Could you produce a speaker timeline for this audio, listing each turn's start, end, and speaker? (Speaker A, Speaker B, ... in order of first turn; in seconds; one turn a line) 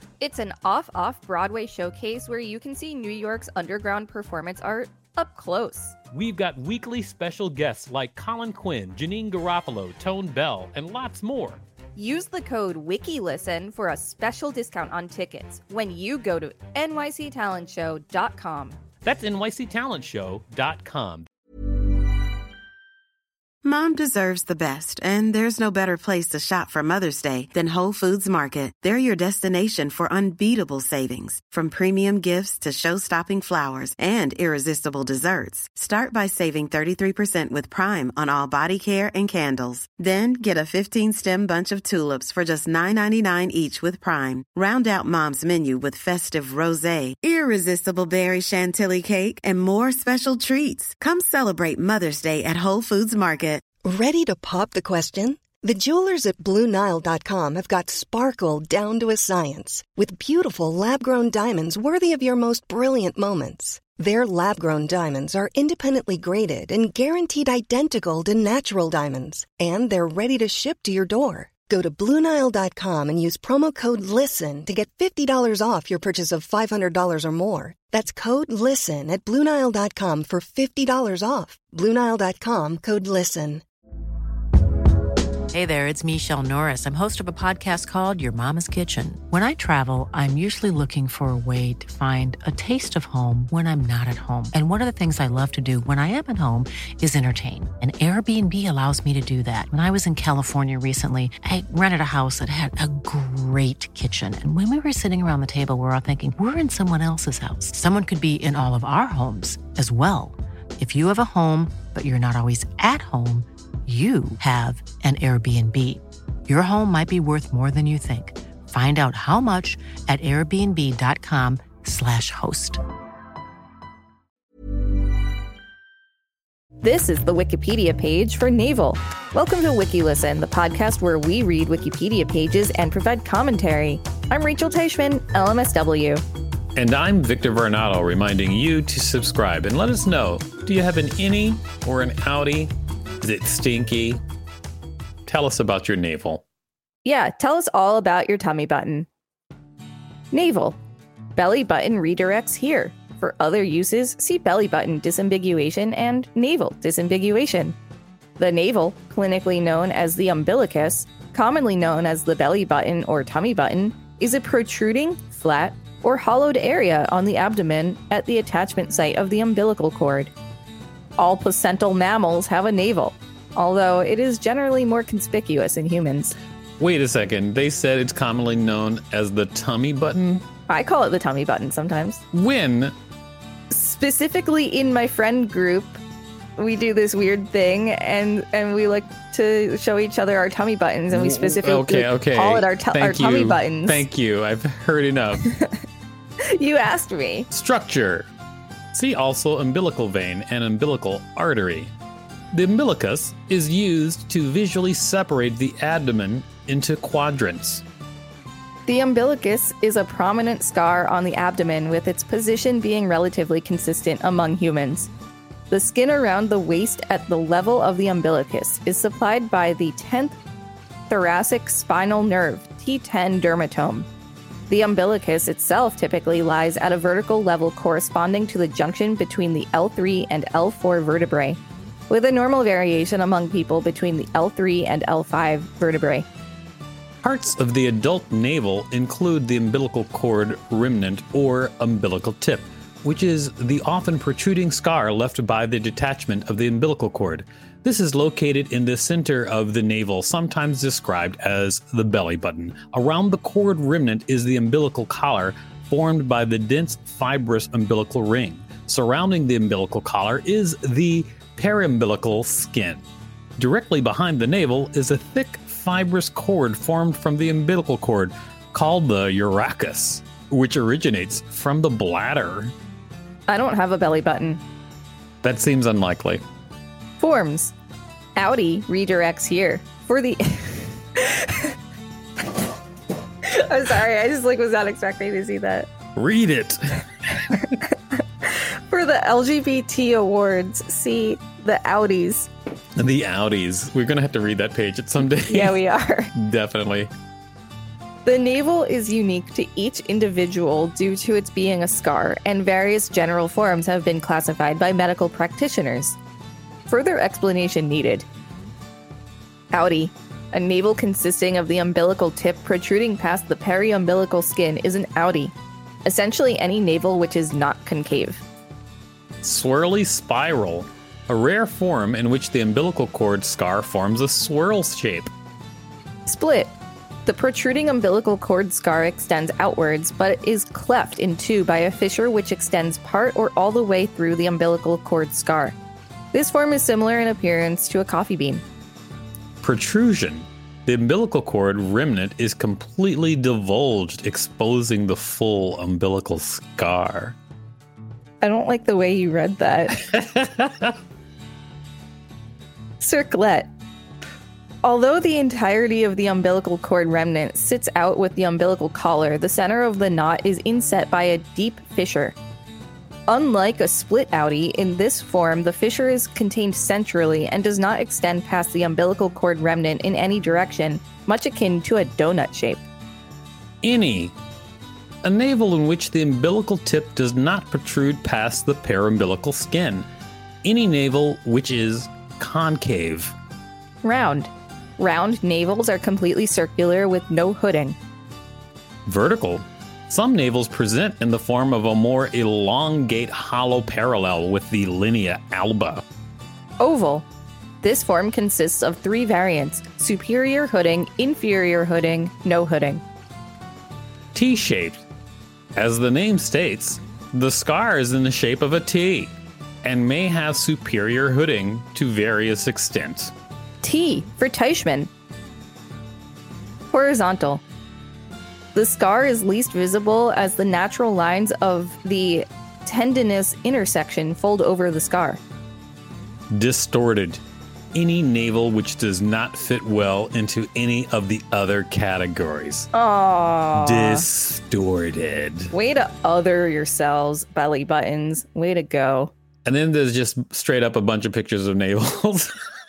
Speaker A: 0.2-5.9
Speaker B: 6.1-11.6
Speaker A: 11.9-18.8
Speaker B: 19.0-21.3
Speaker C: 23.6-53.6
Speaker D: 53.8-83.6
Speaker E: 85.5-122.8
Speaker A: 126.8-136.2
Speaker B: 136.8-144.2
Speaker B: 145.2-146.4
Speaker A: 147.0-149.1
Speaker A: 150.3-150.8
Speaker A: 151.3-157.8
Speaker A: 158.4-170.3
Speaker A: 171.2-176.3
Speaker B: 176.8-180.4
Speaker A: 180.7-182.2
Speaker B: 182.3-182.9
Speaker A: 183.7-186.0
Speaker A: 186.6-194.0
Speaker B: 191.1-195.5
Speaker A: 196.5-197.5
Speaker B: 197.5-198.3
Speaker B: 198.9-201.9
Speaker B: 202.5-207.8
Speaker A: 208.9-215.1
Speaker A: 215.7-220.4
Speaker A: 221.1-224.1
Speaker A: 224.7-231.6
Speaker A: 232.1-236.3
Speaker B: 237.2-263.0
Speaker B: 263.6-272.7
Speaker A: 273.5-274.6
Speaker B: 275.4-276.4
Speaker A: 277.2-277.7
Speaker A: 278.4-281.7
Speaker A: 283.4-285.9
Speaker B: 286.1-287.0
Speaker A: 287.6-292.5
Speaker B: 293.0-295.8
Speaker A: 295.5-296.3
Speaker B: 296.3-297.1
Speaker A: 298.2-306.2
Speaker A: 306.9-308.2
Speaker A: 309.7-315.5
Speaker A: 316.1-318.4
Speaker B: 319.4-325.3
Speaker A: 326.2-326.7
Speaker A: 327.2-335.8
Speaker A: 336.3-338.6
Speaker B: 339.6-347.4
Speaker A: 348.4-350.0
Speaker B: 350.1-350.9
Speaker A: 353.0-353.7
Speaker A: 354.8-362.4
Speaker A: 363.3-372.8
Speaker B: 373.8-374.3
Speaker B: 375.2-380.1
Speaker B: 380.6-383.3
Speaker A: 384.0-387.9
Speaker B: 389.1-396.0
Speaker A: 396.8-397.2
Speaker A: 397.8-403.0
Speaker B: 404.3-405.0
Speaker B: 405.8-413.3
Speaker A: 413.8-415.1
Speaker A: 416.9-417.6
Speaker A: 418.7-425.4
Speaker B: 426.5-427.4
Speaker B: 427.9-432.9
Speaker A: 432.9-434.2
Speaker B: 433.7-435.7
Speaker A: 435.7-439.3
Speaker B: 439.6-442.5